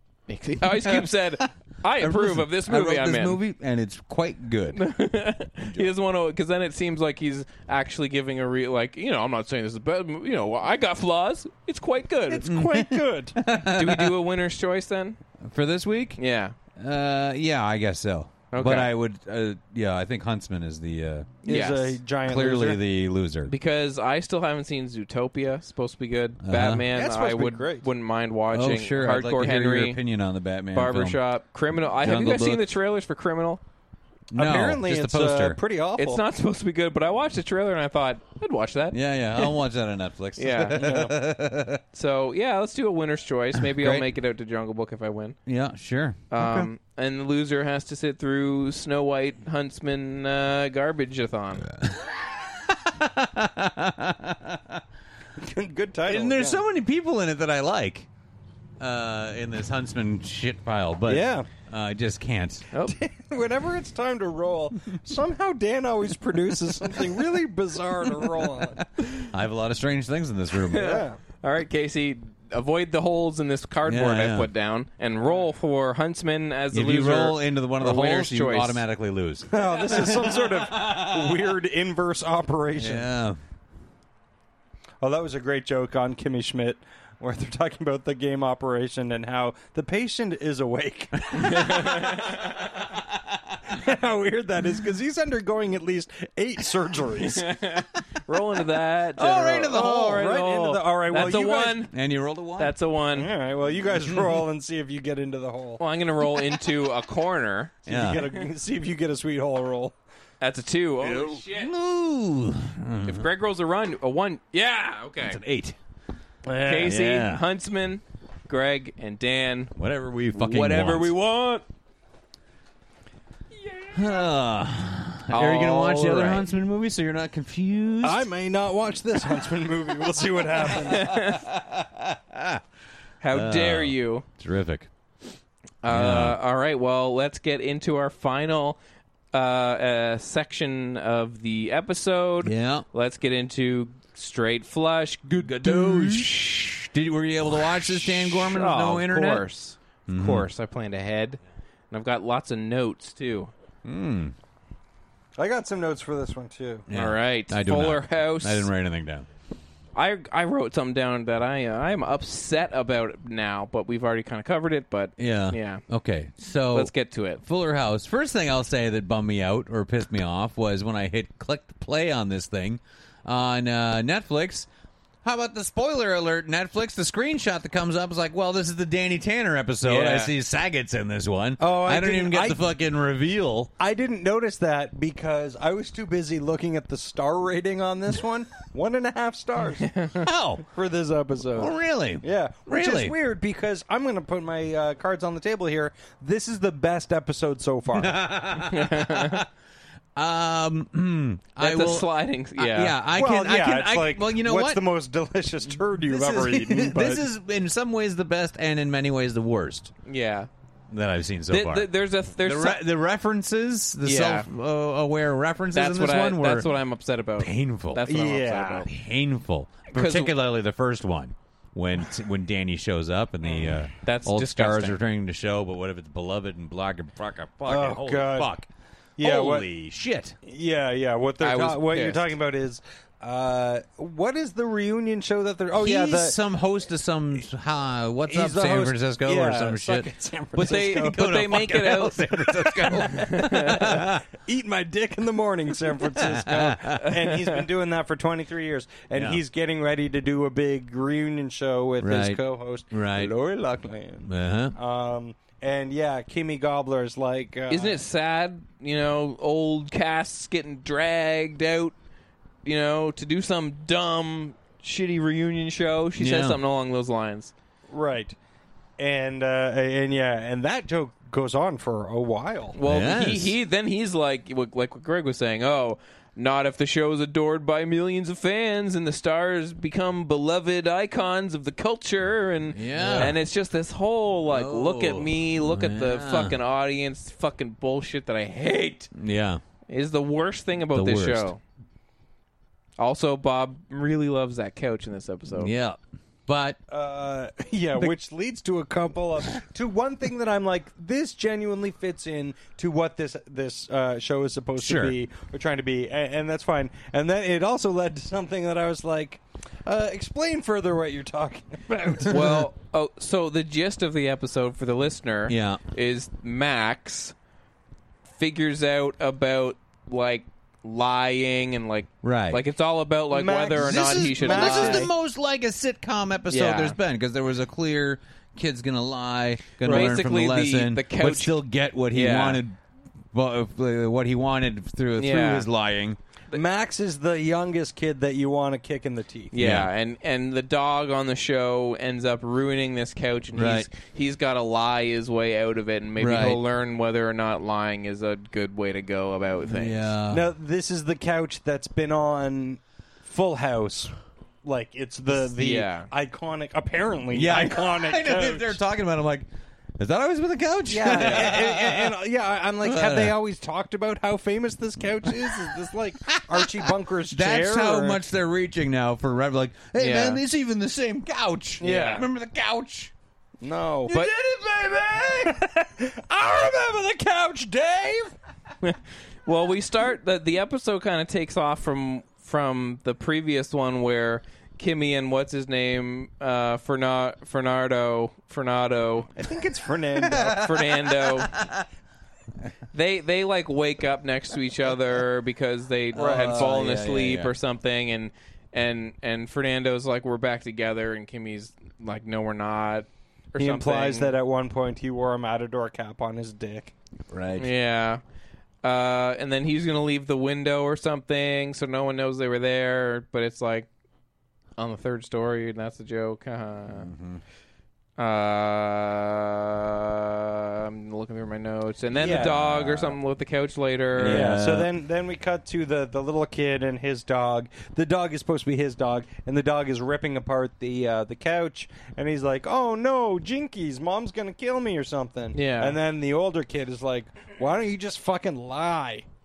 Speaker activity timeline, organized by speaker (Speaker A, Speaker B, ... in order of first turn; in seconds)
Speaker A: 0.3-3.4, 4.7-12.4, 13.7-15.2, 16.2-16.6, 18.5-18.9, 21.4-22.0, 23.5-30.0, 30.7-33.6, 36.0-39.5, 40.4-40.9, 41.9-45.4, 46.3-51.7, 70.7-78.8, 91.4-92.5, 97.4-101.9, 102.6-103.3, 105.8-107.8, 110.4-111.7, 113.0-115.4, 116.6-119.7, 120.3-121.7, 123.7-124.2, 125.3-126.5, 130.7-131.4, 133.2-134.2, 135.8-138.8, 139.3-146.3, 148.0-151.4, 151.9-153.5, 156.9-158.7, 159.9-165.8, 166.7-167.4, 179.8-180.3, 189.9-190.2, 198.6-199.4, 201.6-203.0, 210.1-210.5, 211.5-212.8, 214.0-214.5, 215.7-218.9, 219.9-220.3, 224.0-225.0, 231.4-232.3, 240.6-244.0, 257.7-261.9, 262.6-267.5, 272.8-289.1, 289.9-291.6, 293.0-295.7, 312.3-317.4, 318.4-325.1, 326.5-327.0, 329.8-331.6, 332.1-332.6, 335.2-335.7, 339.5-350.0, 355.3-356.1, 369.9-370.4, 371.8-372.3, 378.8-389.3, 390.4-391.5, 392.9-404.3, 407.6-408.2, 408.8-413.9, 414.8-417.1, 418.2-424.5, 435.5-436.0
Speaker B: 0.6-1.4, 2.0-4.8, 5.6-5.9, 12.5-14.2, 15.4-16.2, 16.8-21.5, 22.2-23.5, 26.4-26.9, 28.5-31.2, 32.0-32.7, 34.3-35.6, 38.9-41.8, 43.6-44.1, 45.5-46.7, 51.6-54.8, 56.1-58.1, 58.8-62.6, 69.2-71.0, 73.9-74.5, 76.7-81.5, 82.8-83.4, 91.4-91.8, 99.2-100.4, 101.2-102.8, 107.9-108.2, 111.0-113.3, 115.3-115.8, 116.7-117.4, 119.8-121.1, 123.9-128.3, 130.9-132.6, 133.3-134.9, 135.9-136.4, 142.4-142.9, 145.5-149.4, 150.1-150.5, 153.8-154.3, 156.9-159.3, 165.2-174.7, 175.2-183.7, 190.2-190.7, 191.6-193.2, 197.9-199.5, 200.2-204.9, 206.0-209.9, 210.9-216.7, 217.4-218.1, 218.9-228.7, 229.2-230.4, 235.8-244.2, 246.0-247.1, 249.1-249.4, 252.0-253.3, 254.2-254.8, 266.2-266.6, 272.9-273.6, 282.7-283.4, 284.5-286.6, 289.1-289.6, 290.9-291.5, 295.6-296.8, 304.8-305.2, 312.3-312.7, 315.5-315.8, 322.2-322.6, 323.8-332.8, 333.3-336.2, 339.6-339.9, 343.5-343.9, 346.2-346.6, 349.6-350.4, 357.3-362.1, 362.8-363.4, 365.3-365.7, 366.3-373.1, 374.1-375.6, 390.2-391.9, 396.1-397.5, 407.3-407.7, 416.9-417.4, 422.2-423.2, 424.1-424.9
Speaker C: 12.3-13.4, 21.4-22.8, 26.9-27.9, 34.4-36.2, 40.8-41.1, 55.4-56.6, 61.1-61.5, 62.9-68.9, 70.7-71.2, 79.5-83.1, 85.0-92.5, 93.7-97.6, 99.7-101.9, 103.2-105.8, 107.8-110.0, 128.0-131.1, 155.4-156.9, 181.6-182.6, 183.8-189.9, 190.6-198.2, 203.1-207.3, 218.1-218.9, 227.7-228.5, 229.2-229.7, 230.4-236.4, 238.3-241.4, 244.3-258.0, 267.9-268.4, 269.0-272.8, 296.9-312.6, 323.3-325.1, 336.5-339.5, 350.3-358.8, 360.9-368.2, 373.6-374.3, 375.2-378.3, 389.4-390.6, 403.6-406.9, 422.2-422.6, 424.2-439.2